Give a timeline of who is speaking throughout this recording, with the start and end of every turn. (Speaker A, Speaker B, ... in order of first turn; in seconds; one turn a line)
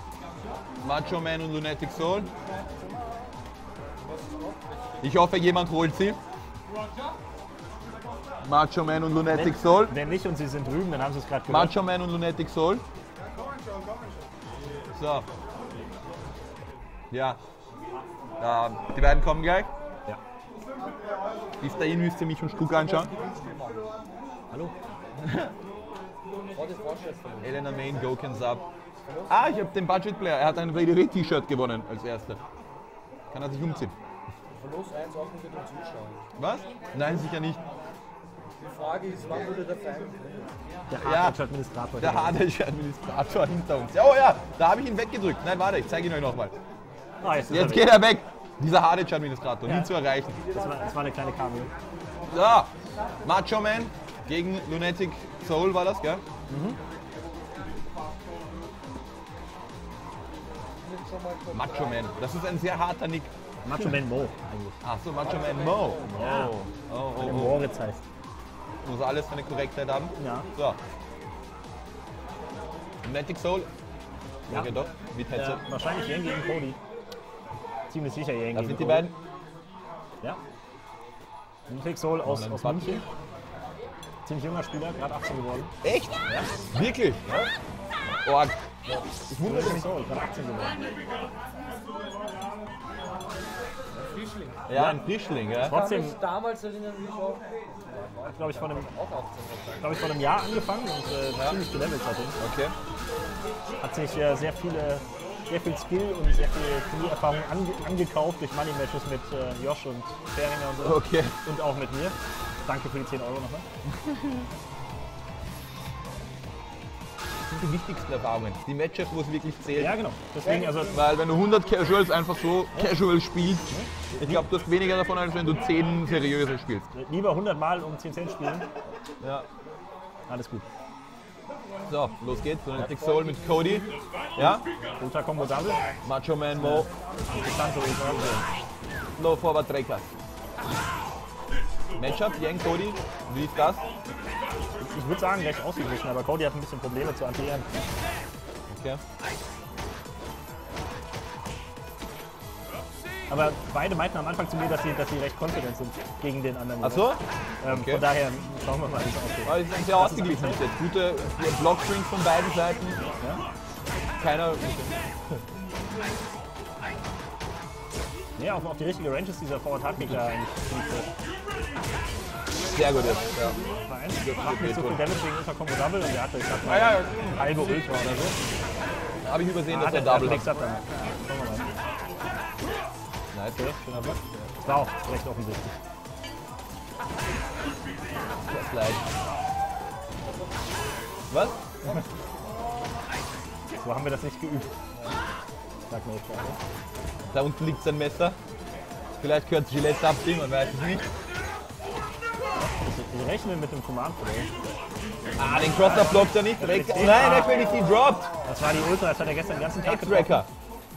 Speaker A: 0.8-2.3
Speaker B: 4.1-4.6
Speaker A: 5.0-6.2
Speaker A: 8.4-9.9
Speaker C: 9.3-11.7
Speaker A: 11.5-12.8
Speaker A: 15.0-15.3
Speaker A: 17.1-17.4
Speaker A: 18.4-19.7
Speaker A: 21.6-23.1
Speaker B: 22.7-23.9
Speaker A: 25.2-25.5
Speaker B: 26.5-27.6
Speaker A: 27.4-28.7
Speaker B: 29.1-29.4
Speaker A: 29.3-32.4
Speaker A: 33.3-34.0
Speaker B: 34.6-36.2
Speaker A: 36.4-37.6
Speaker B: 38.7-40.5
Speaker C: 40.9-42.4
Speaker A: 41.0-41.4
Speaker A: 42.0-46.6
Speaker C: 47.2-47.9
Speaker A: 47.5-50.4
Speaker C: 49.7-49.9
Speaker C: 50.5-51.7
Speaker A: 52.3-52.7
Speaker A: 53.2-56.2
Speaker C: 56.5-56.8
Speaker B: 60.9-61.9
Speaker A: 61.5-63.3
Speaker C: 63.6-64.8
Speaker A: 64.8-67.6
Speaker B: 65.2-66.2
Speaker C: 66.1-66.5
Speaker C: 67.2-68.0
Speaker A: 68.8-70.8
Speaker C: 70.2-70.5
Speaker A: 73.0-73.7
Speaker C: 74.5-74.8
Speaker A: 74.5-75.6
Speaker C: 75.3-76.8
Speaker C: 77.9-79.1
Speaker A: 78.5-79.2
Speaker C: 81.7-83.0
Speaker A: 82.2-83.0
Speaker C: 84.3-85.7
Speaker A: 85.8-86.2
Speaker A: 86.7-87.2
Speaker A: 88.2-88.6
Speaker A: 89.3-89.9
Speaker C: 89.4-90.8
Speaker B: 94.0-94.6
Speaker A: 94.7-95.8
Speaker C: 94.7-95.0
Speaker C: 95.6-96.2
Speaker B: 95.6-99.9
Speaker C: 98.3-98.9
Speaker C: 99.8-102.4
Speaker A: 102.4-102.7
Speaker C: 103.8-113.6
Speaker A: 110.8-111.3
Speaker A: 117.5-120.0
Speaker C: 119.8-121.0
Speaker B: 120.4-120.9
Speaker A: 120.9-126.9
Speaker C: 123.7-124.5
Speaker C: 126.9-128.7
Speaker A: 129.2-129.5
Speaker C: 130.3-130.6
Speaker A: 131.9-134.6
Speaker B: 132.9-133.4
Speaker C: 135.0-135.8
Speaker A: 136.0-136.9
Speaker C: 136.6-138.4
Speaker A: 139.2-140.1
Speaker A: 142.0-143.8
Speaker C: 144.8-147.7
Speaker A: 148.7-149.0
Speaker C: 153.3-160.6
Speaker A: 156.8-158.1
Speaker A: 159.4-163.0
Speaker A: 164.2-164.9
Speaker C: 168.4-171.1
Speaker A: 172.7-173.6
Speaker C: 173.9-178.3
Speaker A: 174.2-175.0
Speaker A: 176.7-177.6
Speaker A: 179.2-180.5
Speaker C: 179.7-181.7
Speaker A: 183.3-184.2
Speaker C: 183.6-183.9
Speaker C: 184.6-185.7
Speaker A: 188.5-189.0
Speaker A: 191.3-191.6
Speaker C: 193.8-194.7
Speaker C: 195.9-196.6
Speaker A: 197.3-198.4
Speaker A: 199.2-201.1
Speaker C: 202.6-204.5
Speaker A: 205.4-208.3
Speaker C: 205.4-207.6
Speaker C: 208.4-210.4
Speaker A: 209.8-210.5